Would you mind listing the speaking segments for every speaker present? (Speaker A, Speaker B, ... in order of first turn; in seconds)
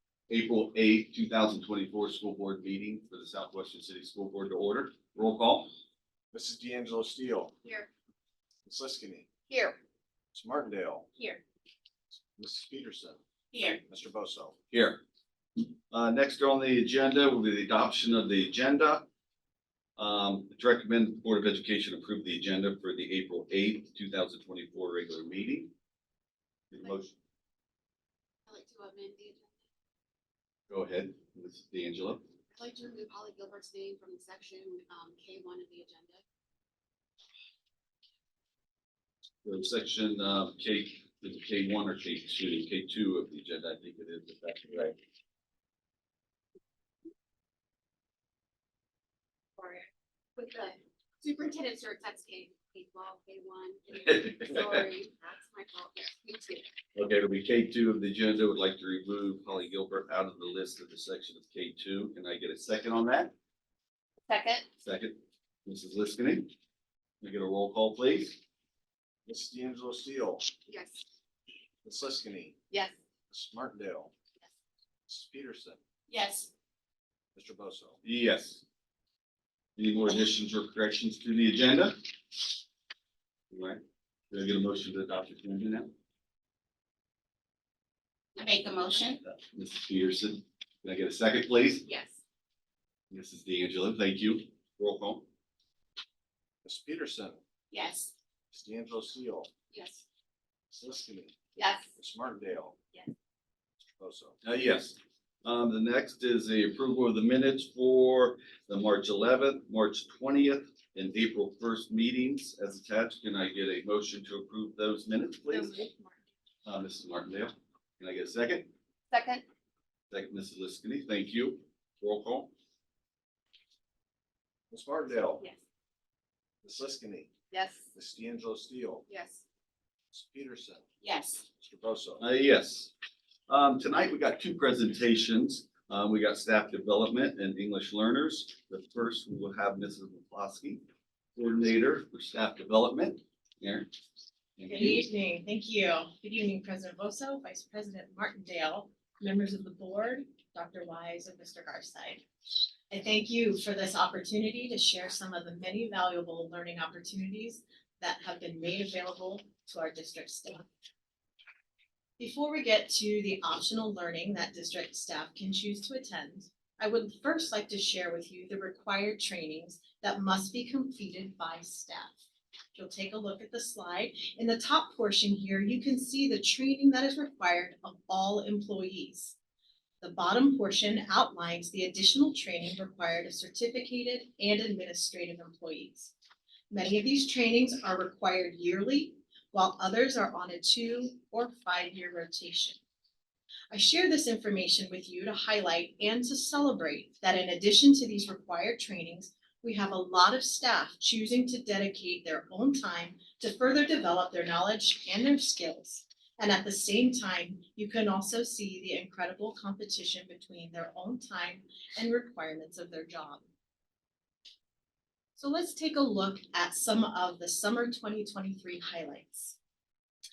Speaker A: 0.3-5.7, 14.7-15.0, 15.9-19.1, 20.0-25.7, 26.7-27.1, 30.7-32.2, 39.4-45.0, 53.9-54.7, 56.9-63.3, 64.8-66.5, 67.2-68.4, 78.0-78.6, 79.8-82.0, 83.5-85.9, 89.2-91.8, 93.1-95.2, 104.4-115.7, 116.6-118.7, 120.1-122.5, 132.2-132.9, 133.5-140.8, 141.3-143.9, 144.6-145.0
Speaker B: 6.3-7.5, 8.6-9.3, 10.3-11.1, 12.4-13.2, 13.8-14.5, 69.2-70.5, 71.8-72.5, 73.3-74.1, 75.1-75.8, 77.3-78.0, 96.6-97.4, 98.5-99.5, 100.7-101.3, 102.0-102.8, 104.0-104.3, 124.7-125.4, 126.6-127.3, 127.9-129.0, 130.1-130.8, 131.6-132.2
Speaker C: 7.6-7.9, 9.5-9.8, 13.5-13.8, 28.5-29.6, 32.5-36.2, 49.6-56.7, 64.3-64.7, 70.7-71.0, 72.7-73.0, 76.1-76.5, 88.3-89.2, 91.8-92.2, 97.7-98.1, 99.7-100.0, 101.5-101.9, 115.5-116.0, 119.1-119.4, 127.5-127.9, 129.1-129.4, 131.0-131.4
Speaker D: 144.6-152.2, 152.9-160.7, 162.2-172.2, 172.7-179.3, 180.0-186.1, 186.7-192.8, 193.7-213.4, 215.4-219.6